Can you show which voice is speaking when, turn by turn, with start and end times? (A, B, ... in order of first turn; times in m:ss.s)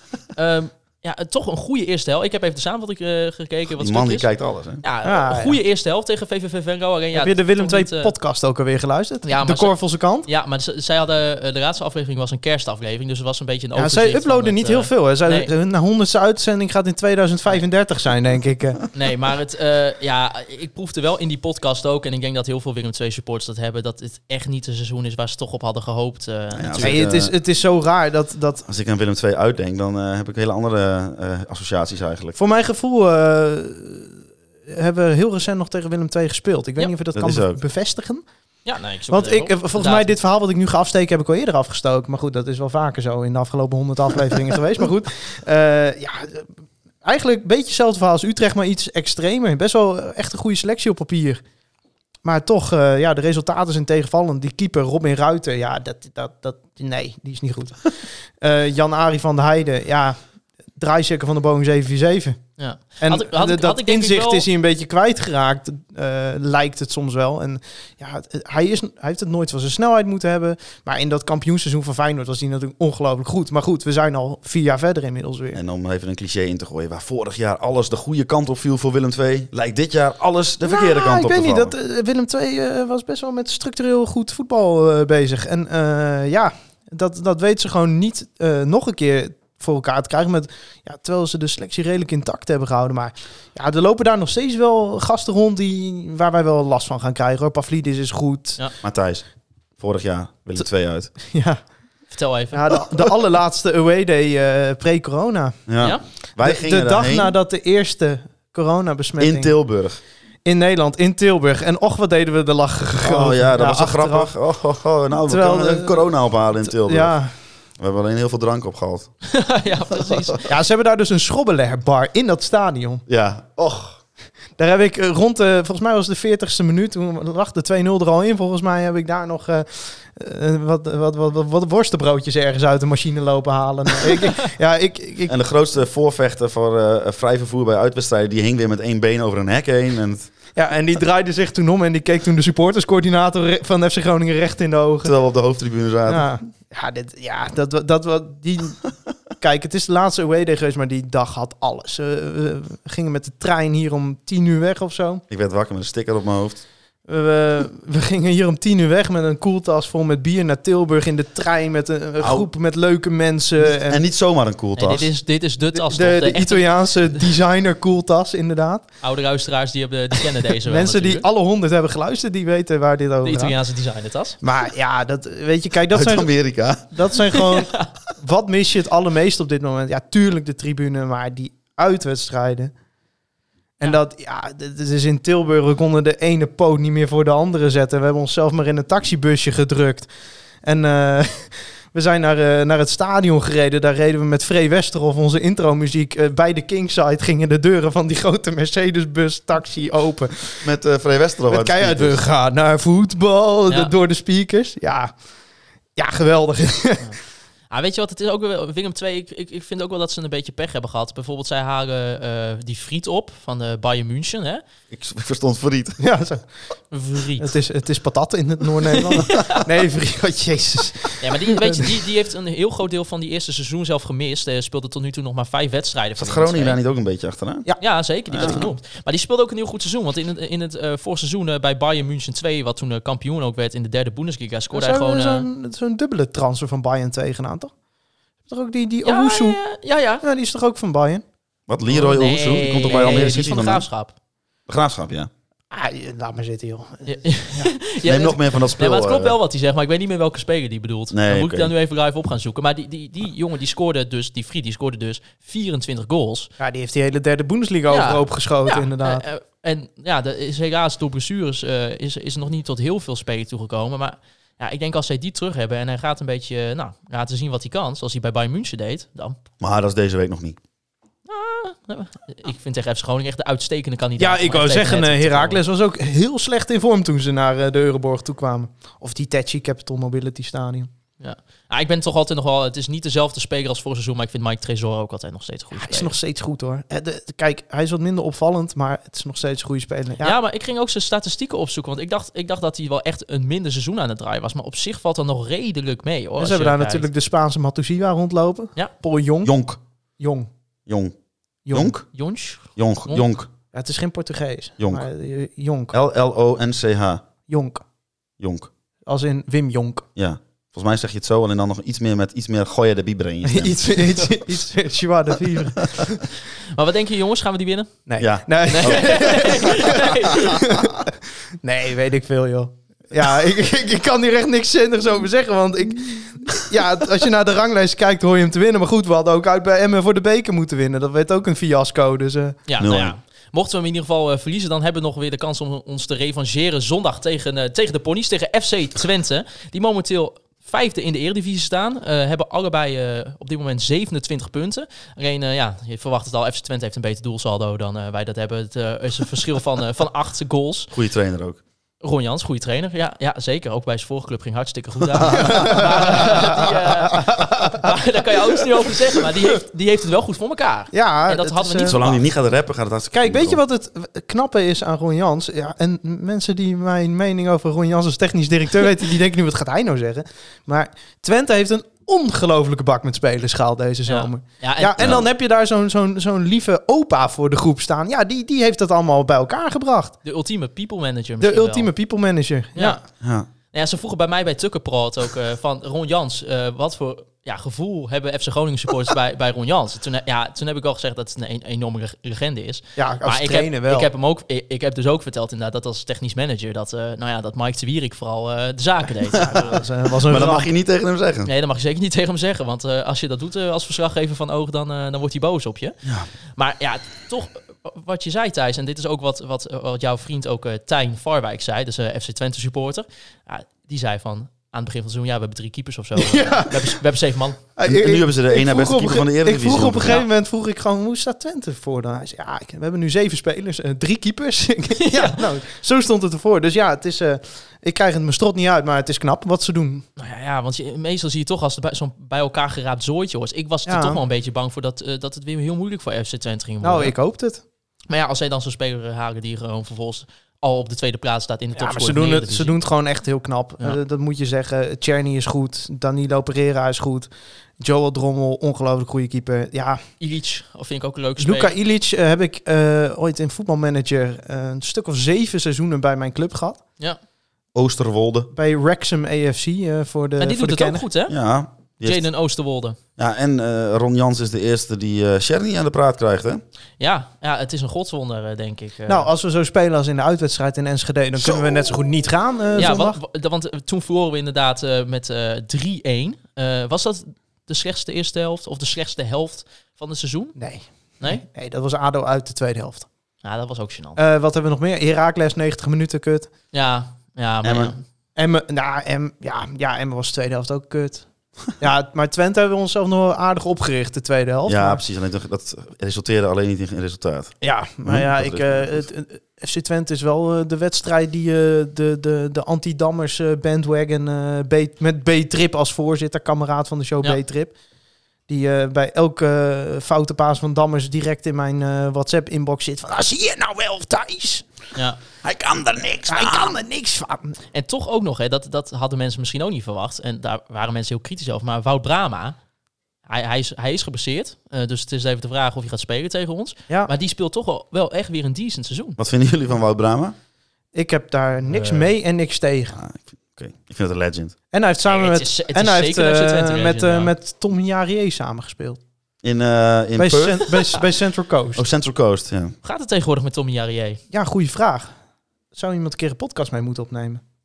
0:00.3-0:08.1 A
0:03.8-0:04.8 B
0:05.0-0:05.6 C
0:07.1-0:10.3 C
0:09.2-0:15.5 A
0:13.8-0:18.8 C
0:18.9-0:27.0 A
0:26.5-0:27.3 B
0:26.8-0:28.6 C
0:28.6-0:32.4 B
0:32.4-0:38.2 C
0:37.1-0:37.6 B
0:38.6-0:40.2 A
0:39.1-0:46.5 C
0:47.0-0:51.4 C
0:52.2-1:00.2 C
1:00.8-1:02.4 C
1:02.6-1:04.4 A
1:03.0-1:15.6 C
1:15.5-1:21.7 B
1:20.6-1:38.6 C
1:38.8-1:39.2 B
1:39.8-1:41.1 B
1:41.3-1:41.6 C
1:42.1-1:42.7 A
1:42.5-1:45.6 C
1:45.7-1:47.3 B
1:46.4-1:49.5 C
1:49.2-1:50.0 B
1:50.4-1:54.3 C
1:53.0-1:57.2 B
1:55.3-1:57.3 C
1:57.8-1:59.1 B
1:59.3-2:00.4 A
2:00.0-2:00.4 B
2:00.5-2:03.0 C
2:03.1-2:04.0 B
2:04.6-2:15.3 C
2:15.3-2:20.3 B
2:20.5-2:25.1 C
2:25.0-2:26.3 B
2:26.1-2:28.8 C
2:29.3-2:35.2 C
2:35.3-2:36.6 B
2:37.1-2:44.0 C
2:42.2-2:42.5 B
2:43.6-2:45.1 B
2:44.8-2:47.2 A
2:45.7-2:48.8 C
2:49.0-2:51.2 A
2:50.6-2:53.6 C
2:53.2-2:54.4 A
2:54.4-3:02.7 C
2:55.9-2:56.8 B
2:57.5-2:57.9 A
3:03.8-3:10.1 C
3:10.6-3:20.6 C
3:20.6-3:22.2 B
3:21.5-3:25.1 C
3:26.0-3:27.1 C
3:27.7-3:34.6 A
3:34.9-3:36.0 B
3:36.0-3:36.4 C
3:36.9-3:37.5 A
3:37.4-3:41.9 C
3:39.0-3:39.5 A
3:41.2-3:46.8 A
3:46.2-3:47.7 B
3:47.8-3:55.5 A
3:48.3-3:48.7 B
3:54.7-3:57.7 C
3:58.5-3:59.6 C
3:59.0-4:00.2 A
4:00.2-4:01.2 C
4:01.7-4:03.9 B
4:01.9-4:04.1 A
4:04.7-4:05.3 B
4:05.7-4:07.7 C
4:07.1-4:16.5 A
4:08.0-4:09.4 B
4:11.1-4:11.7 B
4:16.6-4:19.2 C
4:17.9-4:29.4 A
4:29.6-4:30.6 B
4:31.2-4:35.6 A
4:34.2-4:40.9 C
4:41.2-4:46.1 A
4:45.7-4:50.4 C
4:50.2-4:57.1 A
4:56.4-4:59.5 C
4:59.4-4:59.8 B
5:00.2-5:00.5 C
5:00.9-5:01.1 B
5:01.6-5:01.9 C
5:01.7-5:02.1 B
5:02.1-5:03.2 A
5:02.7-5:03.5 B
5:03.7-5:05.9 C
5:04.8-5:05.1 B
5:05.9-5:07.2 B
5:07.5-5:07.8 C
5:08.4-5:08.7 B
5:09.0-5:10.0 C
5:10.2-5:14.4 B
5:13.4-5:16.2 C
5:16.7-5:18.0 A
5:18.1-5:21.1 C
5:18.2-5:19.7 B
5:18.7-5:20.6 A
5:21.6-5:32.6 C
5:32.7-5:50.9 A
5:32.8-5:33.1 B
5:50.9-5:51.6 B
5:52.0-6:02.2 A
5:55.1-5:55.8 B
5:55.3-5:57.9 C
6:00.9-6:02.0 C
6:01.8-6:03.6 B
6:03.1-6:20.2 C
6:14.1-6:15.2 A
6:15.0-6:15.2 B
6:20.2-6:21.9 A
6:21.4-6:23.0 C
6:23.2-6:23.5 B
6:23.7-6:39.8 A
6:33.0-6:34.1 C
6:39.4-6:40.7 C
6:40.2-6:41.5 B
6:41.4-6:45.9 A
6:46.6-6:57.6 A
6:56.2-6:57.0 C
6:57.8-7:10.0 C
6:57.8-7:00.2 B
7:05.0-7:05.4 A
7:10.2-7:17.1 A
7:13.8-7:14.2 C
7:16.8-7:17.6 C
7:18.1-7:22.8 A
7:21.8-7:30.0 C
7:30.2-7:31.7 A
7:31.4-7:36.8 C
7:37.7-7:38.5 B
7:38.5-7:41.0 C
7:40.4-7:41.4 A
7:41.3-7:42.2 B
7:42.0-7:43.0 A
7:43.2-7:46.6 B
7:47.0-7:49.3 A
7:49.1-7:53.2 C
7:52.8-8:00.6 A
8:00.6-8:03.1 C
8:03.4-8:04.2 A
8:04.2-8:06.5 C
8:06.7-8:08.0 A
8:07.6-8:07.9 B
8:08.4-8:15.0 C
8:14.6-8:19.0 B
8:17.6-8:27.7 C
8:28.5-8:34.6 C
8:36.2-8:37.6 C
8:37.7-8:42.6 A
8:43.3-8:49.2 A
8:49.2-8:50.3 B
8:50.9-8:53.0 C
8:51.7-8:52.1 A
8:52.9-8:54.5 B
8:54.7-8:59.0 C
8:55.0-8:57.3 A
8:59.4-9:00.8 B
9:00.2-9:01.8 C
9:01.8-9:02.7 B
9:02.8-9:04.2 A
9:04.3-9:05.1 C
9:05.7-9:07.4 C